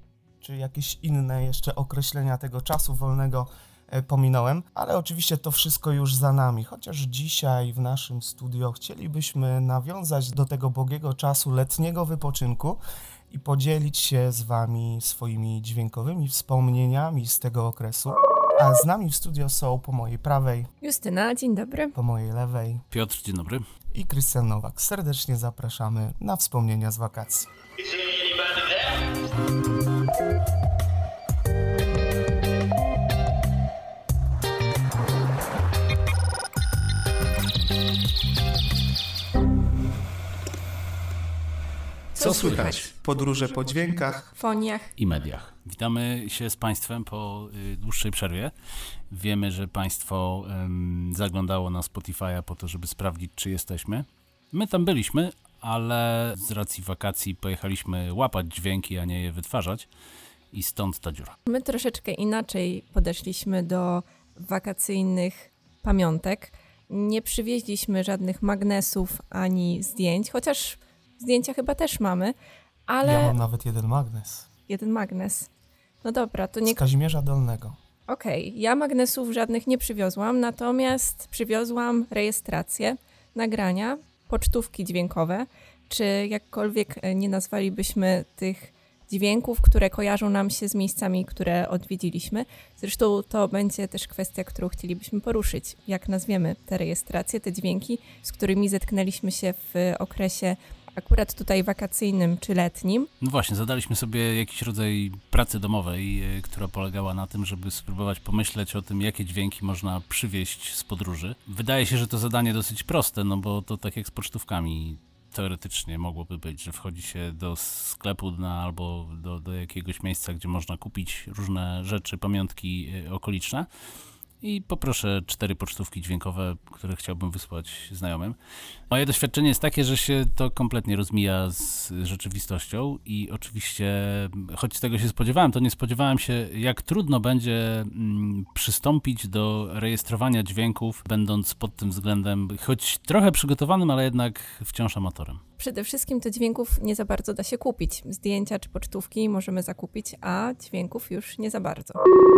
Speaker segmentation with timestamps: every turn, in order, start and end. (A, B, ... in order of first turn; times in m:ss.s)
0:00.4-0:12.8 A
0:13.3-0:20.7 A
0:20.8-0:21.9 B
0:21.9-0:22.8 A
0:22.9-0:23.6 C
0:23.9-0:27.5 A
0:42.2-0:44.3 A
0:42.2-0:42.8 B
0:42.2-0:42.7 C
0:44.4-0:44.9 B
0:45.0-0:48.5 C
0:49.1-0:59.9 C
1:00.5-1:01.4 C
1:01.5-1:12.3 B
1:12.9-1:13.4 B
1:13.0-1:14.4 A
1:14.7-1:15.5 B
1:16.0-1:16.8 B
1:16.6-1:17.8 A
1:18.1-1:43.1 B
1:43.2-2:03.7 C
2:04.4-2:08.4 C
2:08.9-2:25.4 C
2:25.6-2:32.0 B